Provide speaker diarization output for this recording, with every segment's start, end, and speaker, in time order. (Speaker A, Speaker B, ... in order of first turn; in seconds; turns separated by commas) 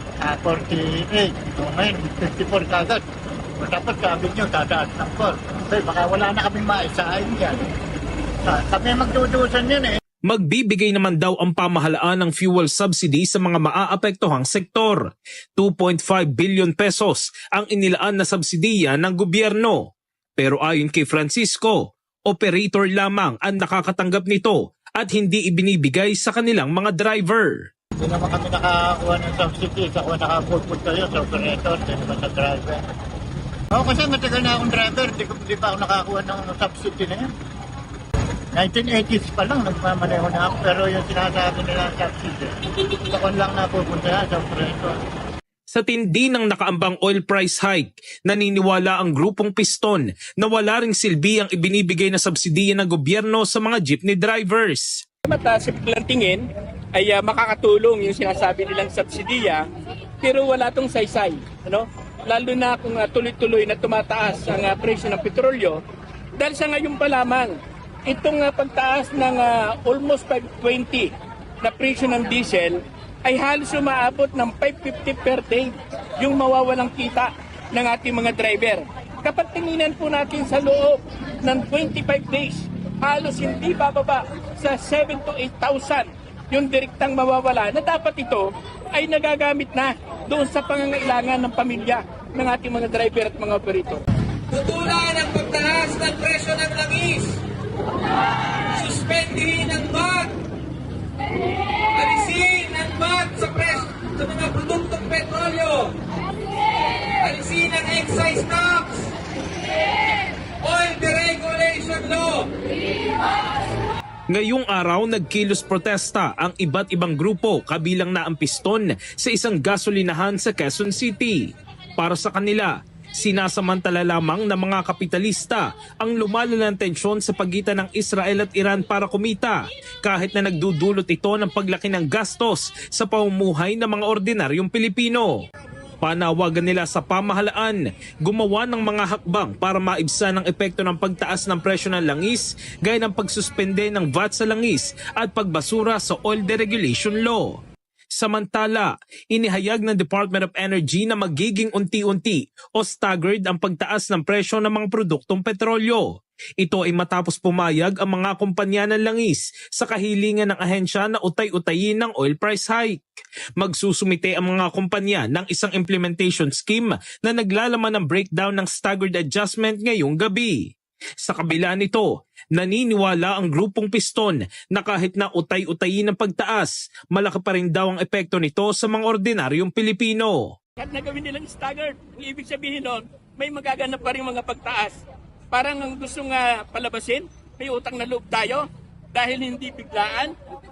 Speaker A: 0.2-3.0, Speaker A: 3.6-7.6, Speaker A: 8.4-10.0, Speaker B: 10.3-15.1, Speaker B: 15.6-19.8, Speaker B: 20.4-27.6, Speaker A: 28.0-32.8, Speaker A: 33.7-37.2, Speaker A: 38.6-42.5, Speaker A: 43.0-45.0, Speaker B: 45.7-55.0, Speaker C: 55.2-56.4, Speaker C: 56.9-59.6, Speaker C: 60.2-65.8, Speaker C: 66.4-67.5, Speaker C: 68.1-71.1, Speaker C: 71.6-94.0, Speaker D: 94.5-97.2, Speaker D: 98.9-100.3, Speaker D: 102.2-105.8, Speaker D: 107.3-108.8, Speaker D: 110.7-112.4, Speaker B: 114.3-121.4, Speaker B: 122.0-135.4, Speaker B: 136.0-147.6, Speaker B: 148.1-163.0, Speaker B: 163.6-170.6, Speaker B: 171.2-180.4, Speaker C: 180.8-184.9, Speaker C: 185.5-190.3